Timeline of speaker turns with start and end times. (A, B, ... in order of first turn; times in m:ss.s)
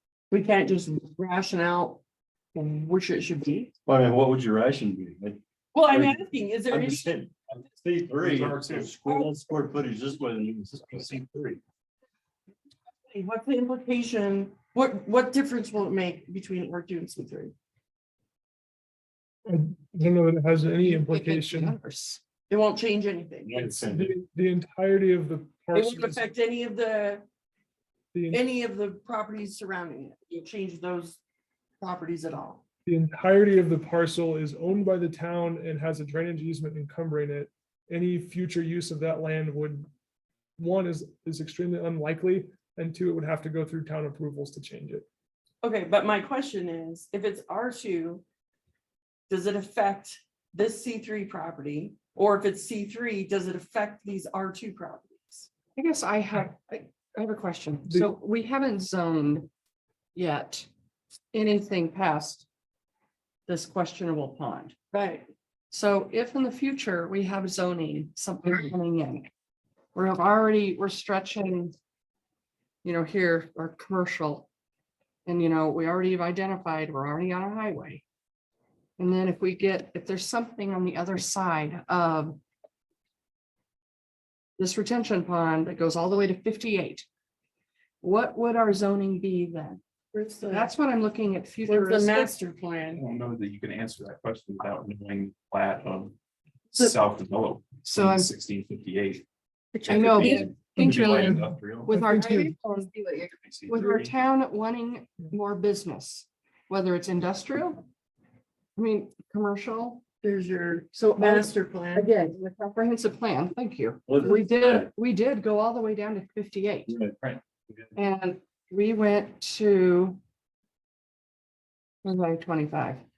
0:00.3-0:02.0 A
0:02.5-0:03.7 A
0:03.8-0:11.6 B
0:05.7-0:07.2 A
0:13.1-0:17.5 A
0:19.4-0:21.8 C
0:20.8-0:22.2 D
0:22.5-0:23.6 A
0:23.4-0:24.1 B
0:23.6-0:26.2 C
0:25.7-0:27.2 A
0:28.1-0:28.4 C
0:28.3-0:31.2 A
0:31.8-0:32.6 A
0:32.8-0:39.9 C
0:40.6-0:45.0 C
0:45.6-0:48.2 A
0:49.3-0:55.5 A
0:55.7-0:59.5 D
1:00.1-1:00.7 D
1:01.3-1:02.4 D
1:03.5-1:04.8 D
1:04.9-1:05.3 A
1:05.7-1:09.3 D
1:09.9-1:11.8 D
1:12.8-1:14.5 D
1:15.2-1:18.0 D
1:19.0-1:22.4 D
1:24.6-1:27.0 D
1:28.0-1:29.8 D
1:30.1-1:30.7 A
1:30.5-1:32.3 D
1:31.7-1:33.0 A
1:32.9-1:36.2 E
1:36.7-1:39.2 E
1:37.8-1:38.3 D
1:39.8-1:40.5 A
1:39.9-1:42.4 E
1:39.9-1:43.1 D
1:40.8-1:42.5 C
1:43.3-1:44.1 E
1:43.7-1:47.8 D
1:48.8-1:50.0 D
1:50.2-1:52.1 A
1:51.0-1:56.9 D
1:54.1-1:54.9 B
1:56.9-1:57.1 B
1:58.0-2:00.2 D
2:02.0-2:03.0 D